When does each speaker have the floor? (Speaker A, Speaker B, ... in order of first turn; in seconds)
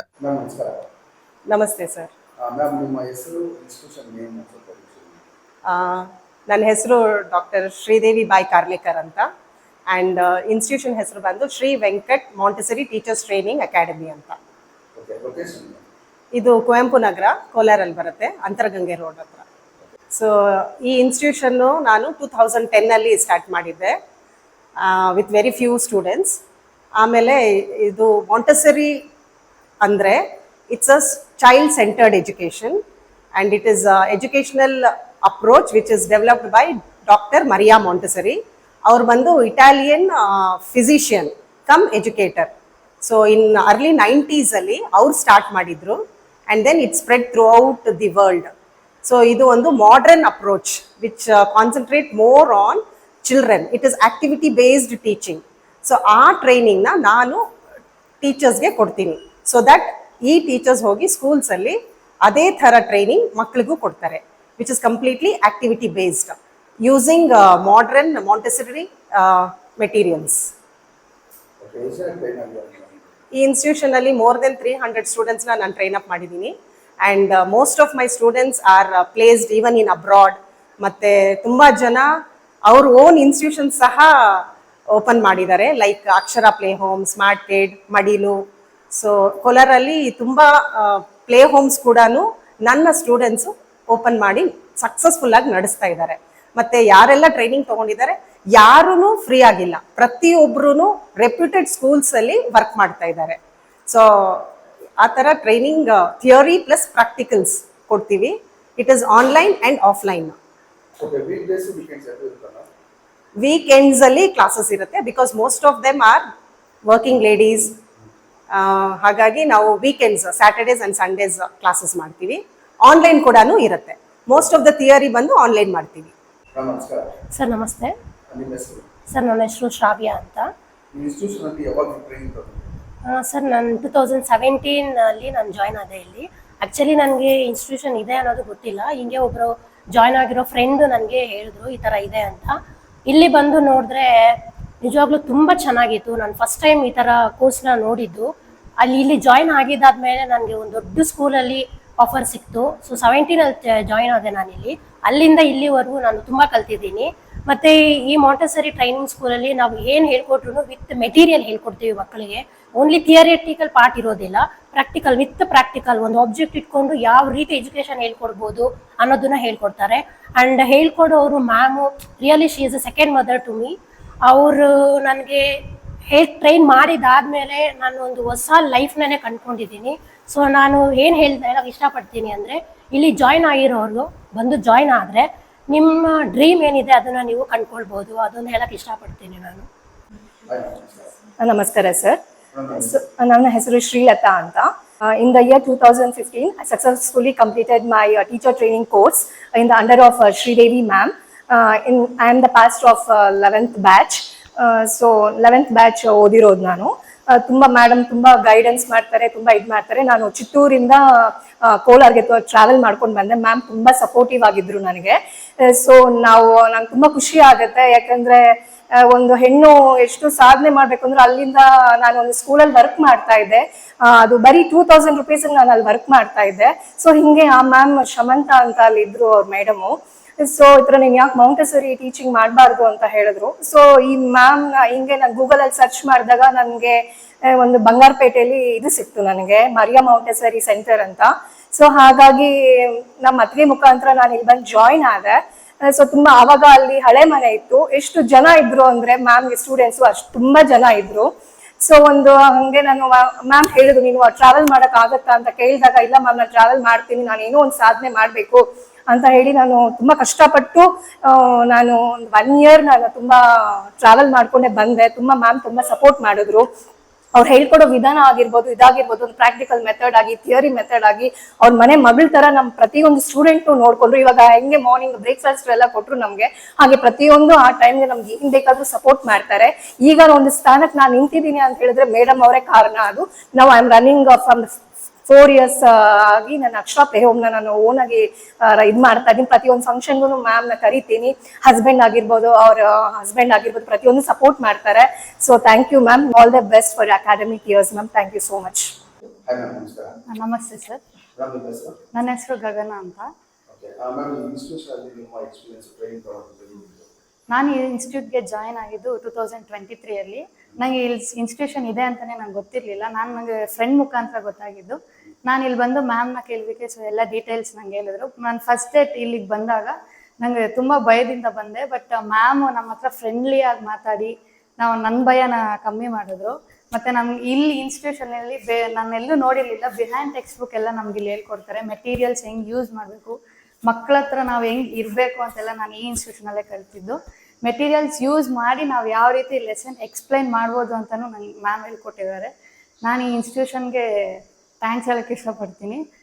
Speaker A: 0.2-0.8, 2.4-5.2, 15.0-15.8, 71.6-73.0, 111.0-112.7, 126.6-127.2, 128.3-128.8, 130.9-132.8, 190.5-191.1, 192.5-192.9, 299.5-300.2, 301.4-301.9, 303.7-307.1
Speaker B: 1.5-2.1, 5.7-9.3, 9.9-14.4, 16.3-19.4, 20.1-23.9, 24.8-26.4, 27.0-29.0, 29.8-32.8, 33.4-42.5, 43.0-48.5, 49.0-57.4, 58.2-70.5, 73.3-82.1, 82.7-84.4, 85.0-88.4, 88.9-103.4, 103.9-104.5, 105.0-110.4, 113.4-116.2, 116.9-117.8, 118.5-126.1
Speaker C: 127.4-127.9, 129.1-130.5, 133.1-142.6, 143.1-148.3, 148.8-173.7, 174.3-175.5, 176.1-189.7
Speaker D: 191.4-192.2, 192.8-251.3, 251.8-266.7, 267.4-284.7, 285.3-298.9
Speaker E: 300.3-301.0, 302.1-303.3, 307.5-342.5, 343.0-344.0, 344.8-346.0